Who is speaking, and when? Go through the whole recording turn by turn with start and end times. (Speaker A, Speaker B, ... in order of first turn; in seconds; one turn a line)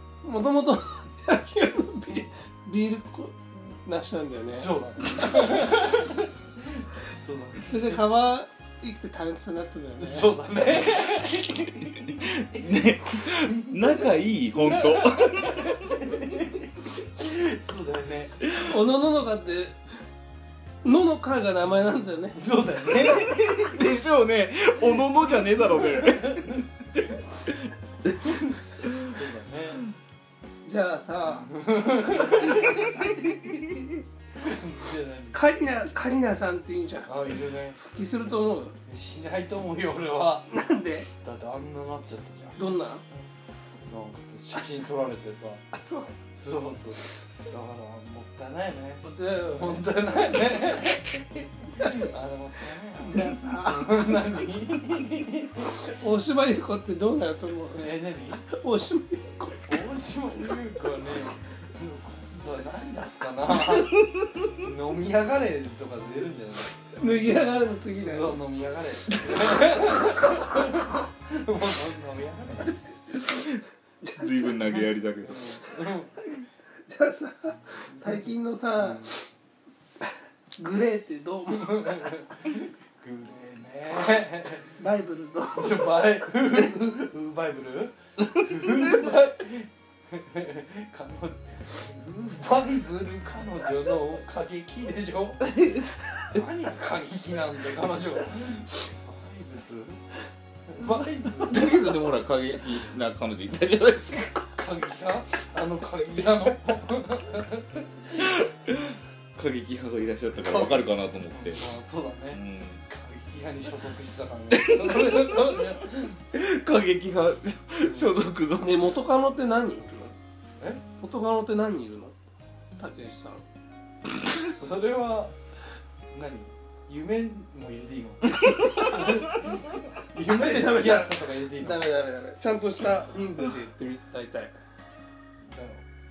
Speaker A: 0.2-5.8
Speaker B: 4.5-6.1
Speaker B: 6.9-8.0
Speaker A: 7.7-10.3
Speaker B: 10.0-12.2
Speaker C: 11.2-15.9
Speaker B: 13.5-13.7
Speaker B: 14.6-18.4
Speaker A: 18.5-19.8
Speaker A: 20.8-22.4
Speaker B: 22.4-23.9
Speaker C: 23.0-29.0
Speaker B: 25.7-26.6
Speaker B: 28.8-29.8
Speaker A: 30.6-31.5
Speaker B: 31.2-33.5
Speaker B: 34.4-35.4
Speaker A: 35.3-38.7
Speaker B: 37.1-37.8
Speaker B: 38.9-40.5
Speaker A: 40.5-41.1
Speaker B: 41.2-42.6
Speaker A: 42.6-43.0
Speaker B: 43.9-45.6
Speaker A: 45.8-46.1
Speaker B: 46.3-55.7
Speaker A: 49.0-49.8
Speaker A: 53.0-54.1
Speaker A: 55.7-59.8
Speaker B: 57.7-58.4
Speaker B: 59.7-66.8
Speaker A: 67.0-68.4
Speaker B: 68.0-73.0
Speaker A: 74.0-74.8
Speaker C: 74.2-75.5
Speaker B: 75.2-76.1
Speaker A: 76.9-79.2
Speaker B: 77.9-79.1
Speaker A: 80.5-82.3
Speaker B: 81.5-84.8
Speaker A: 84.8-86.0
Speaker B: 85.5-95.4
Speaker B: 96.3-100.0
Speaker B: 100.7-101.6
Speaker C: 101.4-104.5
Speaker B: 104.5-108.0
Speaker C: 108.1-111.7
Speaker B: 110.4-116.1
Speaker C: 112.3-112.8
Speaker C: 114.5-119.0
Speaker B: 117.8-118.1
Speaker A: 118.6-120.1
Speaker A: 121.0-122.1
Speaker A: 122.8-123.4
Speaker B: 124.4-125.3
Speaker B: 126.1-131.9
Speaker A: 130.2-134.5
Speaker B: 135.4-135.8